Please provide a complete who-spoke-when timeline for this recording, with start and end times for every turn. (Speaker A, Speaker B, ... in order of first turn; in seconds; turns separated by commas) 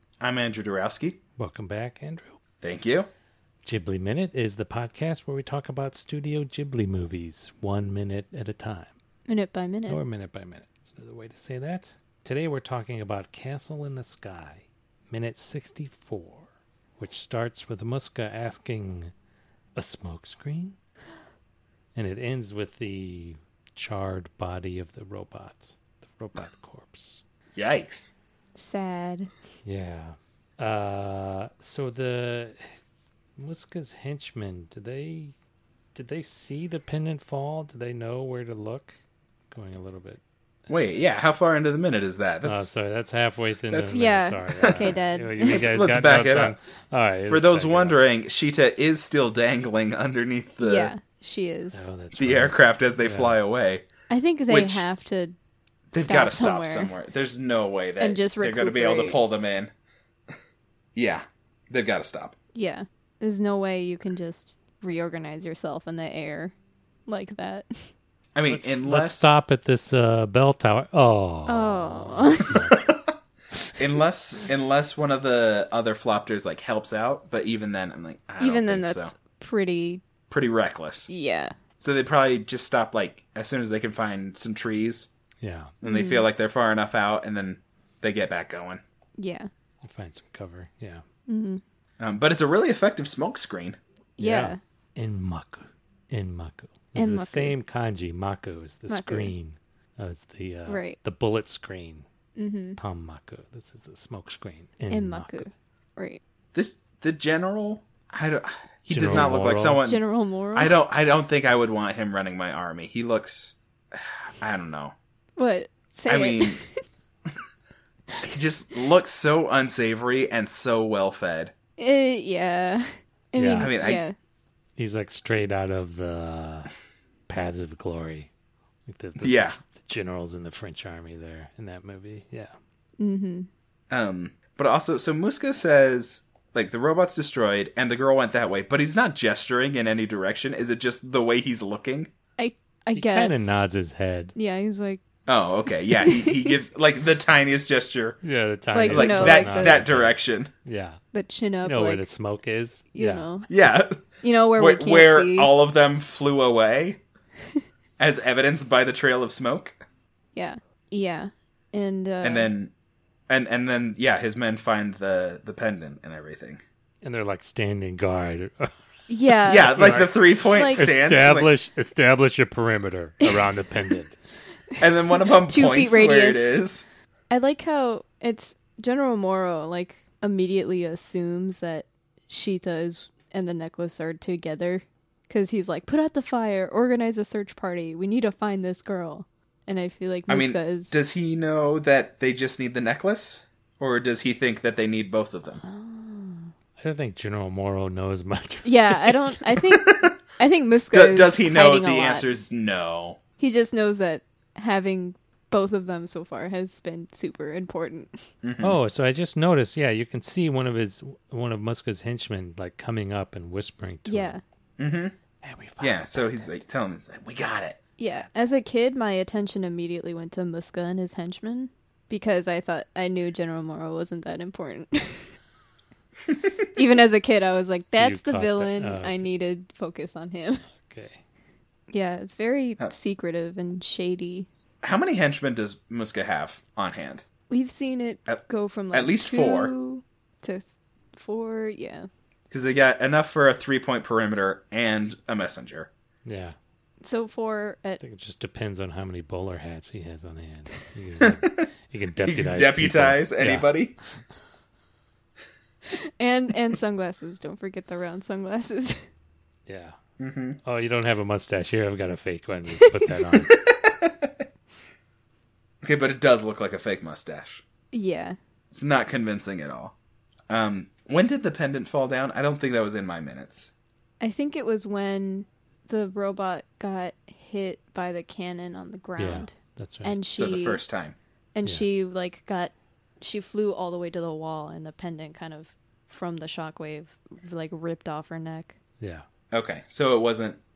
Speaker A: 0.2-1.2, Speaker B: 1.4-2.4, Speaker A: 2.6-3.1, Speaker B: 3.6-8.9, Speaker C: 9.3-10.0, Speaker B: 9.9-16.5, Speaker B: 17.0-19.1, Speaker B: 19.8-20.8, Speaker B: 21.9-27.2, Speaker A: 27.6-28.1, Speaker C: 28.6-29.3, Speaker B: 29.6-32.8, Speaker B: 33.4-35.3, Speaker B: 36.0-39.0, Speaker B: 39.5-40.2, Speaker A: 40.7-42.7, Speaker B: 42.4-48.0, Speaker A: 43.7-46.6, Speaker C: 43.9-45.7, Speaker A: 47.3-50.9, Speaker C: 50.6-51.9, Speaker B: 51.7-53.4, Speaker A: 52.1-53.9, Speaker C: 54.1-55.4, Speaker A: 54.5-54.9, Speaker A: 55.9-59.7, Speaker C: 56.0-56.9, Speaker C: 58.0-59.2, Speaker A: 61.0-62.4, Speaker C: 62.5-66.5, Speaker C: 67.1-67.7, Speaker A: 68.3-69.3, Speaker B: 68.5-72.8, Speaker C: 71.5-72.6, Speaker A: 72.7-73.0, Speaker A: 73.8-79.1, Speaker C: 78.4-80.0, Speaker A: 80.3-81.1, Speaker C: 81.1-81.5, Speaker A: 81.8-85.1, Speaker B: 85.4-85.7, Speaker A: 85.8-88.8, Speaker C: 85.8-86.3, Speaker C: 89.2-89.5, Speaker B: 89.8-91.0, Speaker C: 91.3-91.6, Speaker A: 92.0-93.8, Speaker C: 94.2-94.6, Speaker B: 94.2-102.1, Speaker C: 97.0-97.6, Speaker C: 98.9-99.3, Speaker C: 100.7-101.0, Speaker C: 102.4-102.8, Speaker B: 102.8-105.5, Speaker C: 104.9-106.2, Speaker A: 106.5-110.0, Speaker B: 108.9-109.8, Speaker C: 109.1-110.8, Speaker A: 110.5-115.0, Speaker C: 115.4-116.8, Speaker A: 116.1-116.6, Speaker A: 118.2-121.5, Speaker C: 121.8-124.2, Speaker B: 123.4-123.7, Speaker A: 123.6-124.0, Speaker B: 124.8-126.7, Speaker B: 127.3-128.3, Speaker B: 128.9-132.6, Speaker A: 129.2-129.6, Speaker C: 133.0-133.5, Speaker A: 133.9-142.1, Speaker C: 142.4-143.5, Speaker B: 142.9-144.3, Speaker C: 144.3-145.0, Speaker A: 145.3-148.2, Speaker C: 145.7-146.5, Speaker B: 148.2-151.0, Speaker C: 148.7-149.8, Speaker A: 148.9-150.5, Speaker C: 151.1-152.1, Speaker B: 151.6-153.3, Speaker C: 152.9-153.5, Speaker A: 153.5-157.0, Speaker C: 154.2-155.5, Speaker A: 158.0-159.8, Speaker C: 160.3-162.5, Speaker A: 162.2-162.7, Speaker A: 163.3-166.6, Speaker B: 167.0-168.7, Speaker C: 169.1-170.9, Speaker A: 169.5-171.5, Speaker B: 169.6-174.2, Speaker A: 174.8-176.9, Speaker C: 175.2-176.7, Speaker C: 177.3-191.0, Speaker A: 190.3-195.6, Speaker C: 195.6-196.5, Speaker B: 196.8-199.2, Speaker C: 198.6-202.3, Speaker A: 199.7-200.1, Speaker A: 200.9-203.2, Speaker C: 203.4-208.2, Speaker A: 208.4-208.8, Speaker B: 208.6-214.4, Speaker C: 214.1-214.4, Speaker A: 214.8-215.2, Speaker B: 215.4-216.5, Speaker A: 215.8-217.8, Speaker C: 218.0-225.3, Speaker C: 226.7-230.7, Speaker B: 227.9-229.2, Speaker B: 230.7-231.2, Speaker C: 231.9-234.5, Speaker A: 234.8-237.2, Speaker C: 237.5-242.1, Speaker A: 238.3-239.7, Speaker A: 242.5-245.9, Speaker B: 246.2-246.6, Speaker C: 247.0-248.0, Speaker B: 248.0-253.8, Speaker A: 251.2-251.7, Speaker A: 252.2-253.9, Speaker C: 256.2-259.1, Speaker B: 259.7-259.9, Speaker A: 260.2-260.6, Speaker B: 260.6-263.5, Speaker A: 263.3-264.3, Speaker A: 265.8-267.6, Speaker C: 267.9-268.4, Speaker A: 268.7-269.9, Speaker A: 270.5-273.7, Speaker C: 274.2-280.8, Speaker B: 279.2-280.2, Speaker A: 280.4-281.2, Speaker C: 281.6-288.8, Speaker B: 289.0-289.3, Speaker A: 289.5-290.6